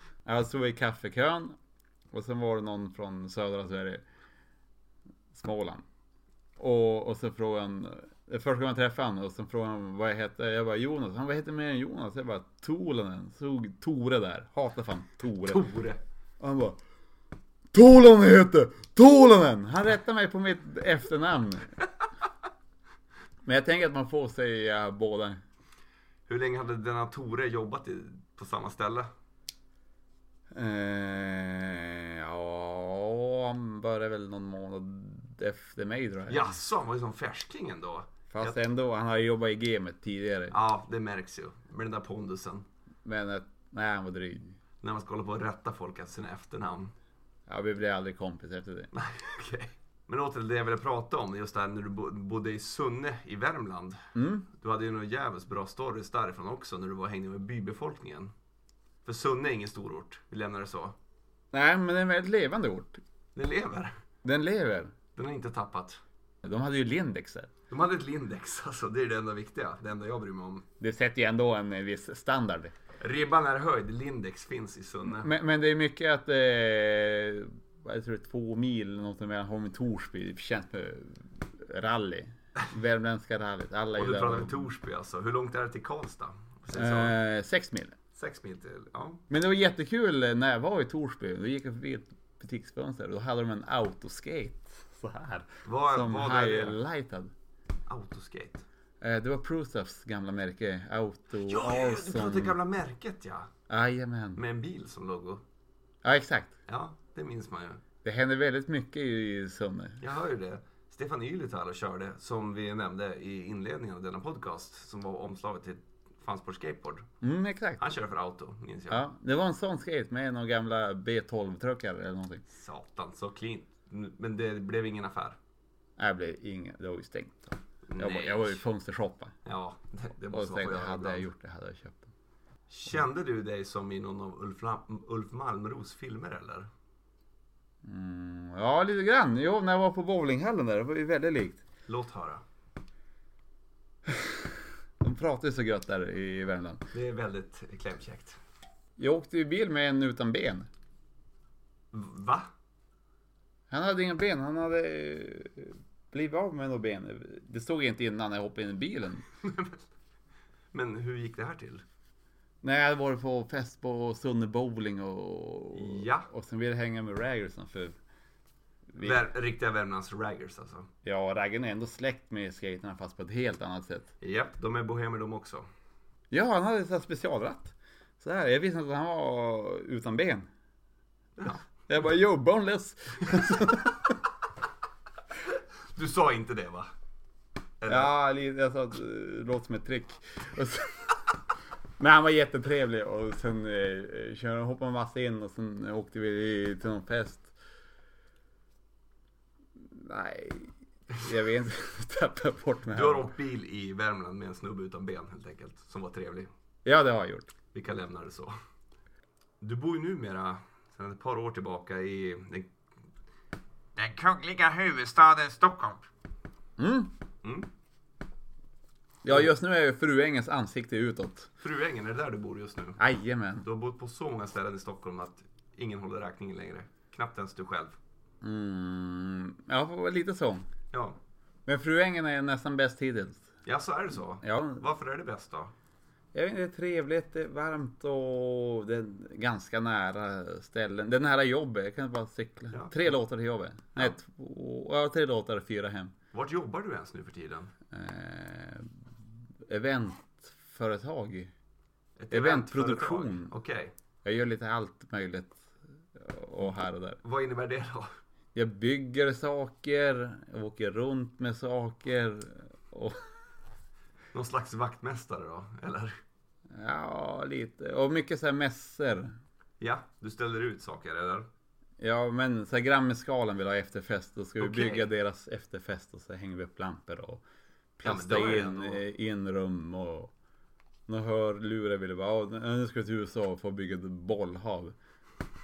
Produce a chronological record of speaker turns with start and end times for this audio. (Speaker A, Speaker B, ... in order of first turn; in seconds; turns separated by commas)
Speaker A: 0.2-1.6, Speaker A: 2.1-4.0, Speaker A: 5.3-5.8, Speaker A: 6.6-15.6, Speaker B: 15.4-16.0, Speaker A: 16.4-16.8, Speaker A: 17.7-21.7, Speaker A: 23.4-25.4, Speaker B: 26.3-29.1, Speaker A: 30.5-36.6, Speaker B: 36.3-38.6, Speaker A: 38.3-40.6, Speaker B: 40.5-42.7, Speaker A: 43.0-44.6, Speaker B: 44.8-46.9, Speaker A: 47.5-48.9, Speaker B: 48.9-54.0, Speaker A: 54.1-54.5, Speaker B: 54.5-58.3, Speaker B: 59.0-61.0, Speaker A: 61.5-63.0, Speaker B: 63.4-63.9, Speaker A: 64.2-64.9, Speaker B: 65.2-66.0, Speaker A: 66.4-67.5, Speaker B: 67.7-70.7, Speaker A: 70.8-72.8, Speaker B: 73.0-75.3, Speaker A: 75.1-84.7, Speaker B: 84.0-87.2, Speaker A: 86.7-88.0, Speaker B: 88.2-89.2, Speaker A: 89.3-97.3, Speaker B: 95.7-96.8, Speaker B: 97.9-98.7, Speaker A: 99.0-102.5, Speaker B: 101.4-103.5, Speaker A: 103.7-104.4, Speaker B: 104.4-105.4, Speaker A: 106.0-106.5, Speaker B: 106.7-107.8, Speaker A: 108.0-110.0, Speaker B: 110.0-117.1, Speaker A: 117.2-117.8, Speaker B: 117.8-119.0, Speaker A: 118.9-122.4, Speaker B: 122.5-125.4, Speaker A: 126.0-129.3, Speaker B: 127.9-128.6, Speaker B: 129.4-131.3, Speaker A: 130.3-132.1, Speaker B: 132.7-136.7, Speaker A: 137.8-141.6, Speaker B: 141.9-142.4, Speaker A: 144.1-144.5, Speaker A: 145.0-146.8, Speaker B: 146.9-148.4, Speaker A: 149.0-150.7, Speaker B: 151.9-152.5, Speaker A: 153.7-159.2, Speaker B: 159.4-159.8, Speaker B: 160.7-161.8, Speaker A: 162.6-168.0, Speaker B: 165.7-166.3, Speaker A: 168.9-169.2, Speaker B: 169.0-170.9, Speaker A: 171.0-174.1, Speaker B: 174.2-175.7, Speaker A: 176.3-180.5, Speaker B: 181.4-181.7, Speaker A: 181.9-184.2, Speaker B: 185.9-186.9, Speaker B: 187.8-188.1, Speaker A: 187.9-191.4, Speaker A: 192.0-197.5, Speaker A: 199.8-203.3, Speaker B: 202.9-206.5, Speaker A: 206.8-207.5, Speaker B: 207.7-208.5, Speaker B: 209.6-212.7, Speaker B: 214.0-216.1, Speaker A: 216.8-217.1, Speaker A: 219.2-221.5, Speaker B: 221.6-223.0, Speaker A: 223.0-223.7, Speaker B: 223.6-228.0, Speaker A: 228.4-230.7, Speaker B: 230.9-231.2, Speaker A: 231.7-233.5, Speaker B: 233.7-235.7, Speaker A: 234.4-234.8, Speaker A: 236.3-246.1, Speaker B: 242.7-243.0, Speaker B: 246.3-247.7, Speaker A: 247.9-249.0, Speaker A: 249.7-251.5, Speaker B: 252.2-253.9, Speaker A: 252.3-253.5, Speaker A: 254.2-257.2, Speaker B: 257.2-258.1, Speaker A: 258.5-263.2, Speaker B: 264.3-266.1, Speaker A: 266.7-269.4, Speaker B: 269.8-271.5, Speaker A: 272.0-277.4, Speaker B: 274.6-275.1, Speaker A: 278.0-280.3, Speaker B: 278.0-279.0, Speaker A: 281.1-284.9